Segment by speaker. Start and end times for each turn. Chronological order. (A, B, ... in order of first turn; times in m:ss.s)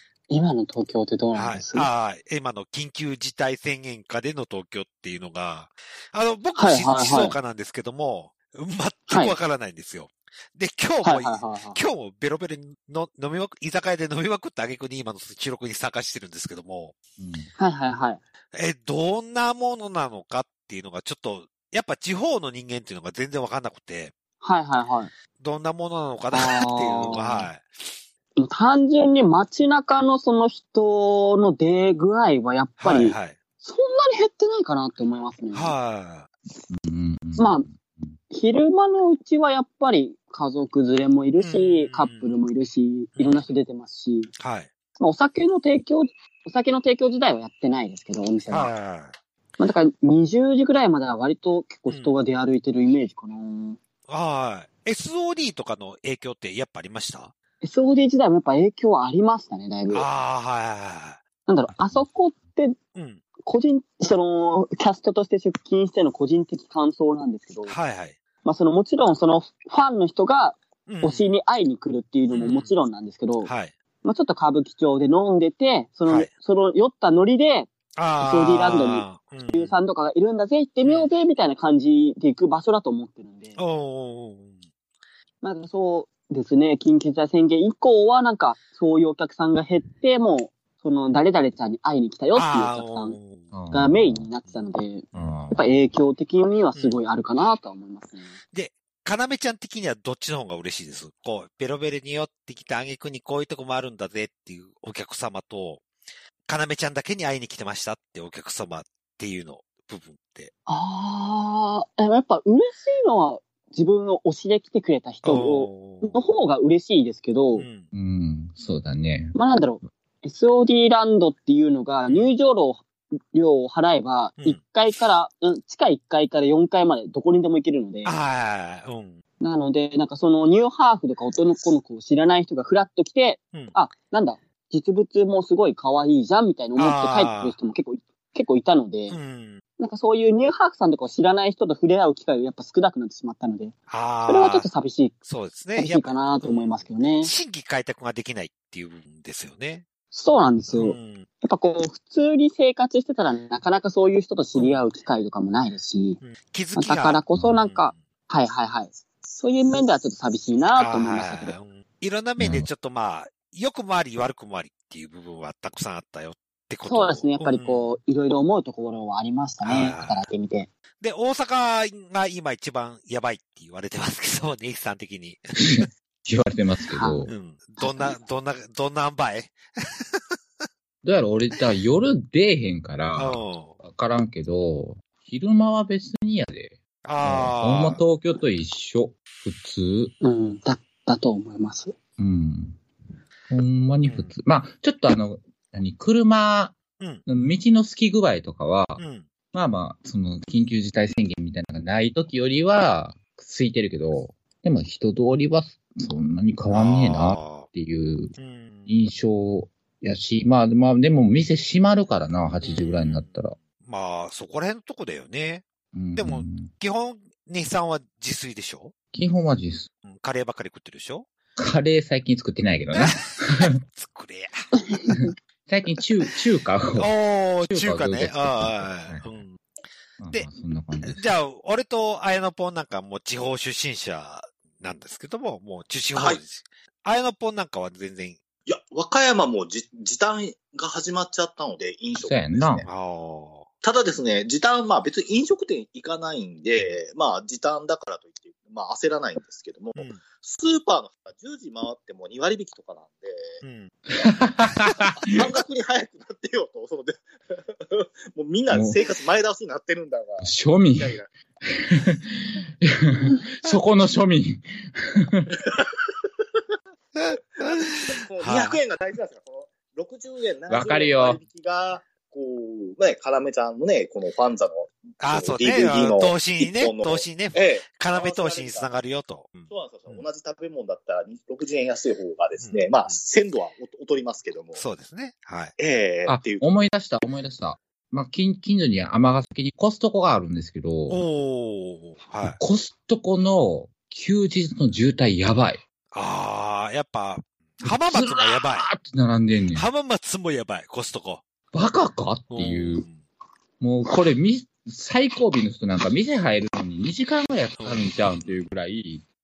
0:00.3-0:01.9 A
0:01.3-0:16.9 B
0:06.6-0:07.4 A
0:09.1-0:09.4 A
0:11.0-0:11.8 A
0:17.2-0:17.5 C
0:17.6-0:18.2 A
0:18.5-0:24.1 B
0:24.4-0:25.1 A
0:25.4-0:27.8 B
0:26.3-0:27.5 A
0:28.4-0:35.7 A
0:32.8-0:33.4 B
0:35.5-0:36.3 B
0:36.7-0:38.2 C
0:37.4-0:37.6 A
0:38.3-0:44.3 A
0:41.4-0:42.3 B
0:43.2-0:43.4 B
0:44.4-0:44.7 B
0:45.0-0:48.7 A
0:48.5-0:49.1 B
0:49.6-0:53.8 A
0:51.9-0:52.1 B
0:54.1-0:57.3 B
0:57.6-1:00.0 A
0:59.9-1:01.2 B
1:01.5-1:02.8 A
1:01.8-1:02.0 C
1:02.9-1:03.2 B
1:03.4-1:07.7 A
1:07.7-1:08.2 B
1:08.4-1:13.5 A
1:10.9-1:11.3 B
1:12.3-1:12.7 B
1:13.4-1:13.7 B
1:14.0-1:23.6 A
1:18.0-1:19.7 B
1:23.6-1:24.6 B
1:25.4-1:33.2 A
1:32.3-1:33.5 B
1:33.5-1:34.3 C
1:33.7-1:38.4 A
1:35.1-1:35.6 C
1:38.5-1:45.8 B
1:46.5-1:50.5 B
1:50.7-1:57.6 A
1:55.2-1:56.2 B
1:57.6-1:57.9 B
1:57.9-1:59.3 C
1:59.3-2:08.1 A
2:08.0-2:09.2 B
2:09.4-2:19.2 A
2:16.8-2:17.5 B
2:19.1-2:19.6 B
2:19.8-2:23.7 A
2:23.9-2:24.7 B
2:24.3-2:25.2 A
2:25.2-2:29.8 B
2:25.8-2:27.3 A
2:30.1-2:36.2 A
2:30.7-2:31.3 B
2:36.2-2:38.0 B
2:36.8-2:41.6 A
2:40.8-2:47.9 B
2:42.4-2:42.7 C
2:46.8-2:50.7 A
2:49.6-2:50.2 B
2:51.0-2:55.9 B
2:55.6-2:57.3 C
2:56.9-2:57.2 A
2:57.3-3:00.2 B
2:57.8-2:58.2 A
3:01.0-3:10.1 C
3:03.2-3:03.7 B
3:07.0-3:08.0 B
3:10.2-3:12.0 A
3:12.2-3:12.8 C
3:13.5-3:19.0 C
3:14.0-3:14.3 B
3:19.0-3:19.2 B
3:19.5-3:28.3 C
3:26.7-3:27.7 B
3:28.4-3:28.9 B
3:28.9-3:33.6 C
3:32.6-3:35.6 B
3:35.9-3:36.7 C
3:36.2-3:38.9 B
3:39.1-3:39.9 C
3:40.0-3:41.3 B
3:41.6-3:43.7 C
3:42.9-3:44.6 B
3:45.1-3:47.1 C
3:47.0-3:49.6 B
3:47.6-3:49.4 C
3:50.2-3:51.2 C
3:51.0-3:58.4 B
3:56.1-3:56.4 D
3:58.7-4:02.9 D
4:02.2-4:02.9 C
4:02.8-4:03.6 B
4:03.8-4:13.6 D
4:10.0-4:10.2 B
4:13.6-4:13.9 B
4:14.1-4:15.4 C
4:15.2-4:21.3 D
4:18.7-4:19.0 C
4:20.4-4:21.2 C
4:21.7-4:25.6 C
4:25.6-4:26.2 D
4:27.2-4:28.8 B
4:27.3-4:38.9 D
4:30.7-4:31.4 C
4:35.2-4:40.2 B
4:39.7-4:44.8 D
4:42.6-4:43.2 B
4:44.7-4:45.7 B
4:45.8-4:46.6 D
4:46.3-4:51.2 C
4:51.1-4:52.6 B
4:52.4-4:55.8 C
4:56.1-4:58.9 B
4:57.8-4:59.9 C
4:59.7-5:01.4 B
5:01.7-5:03.0 C
5:02.5-5:03.2 B
5:03.8-5:09.2 C
5:07.8-5:08.6 B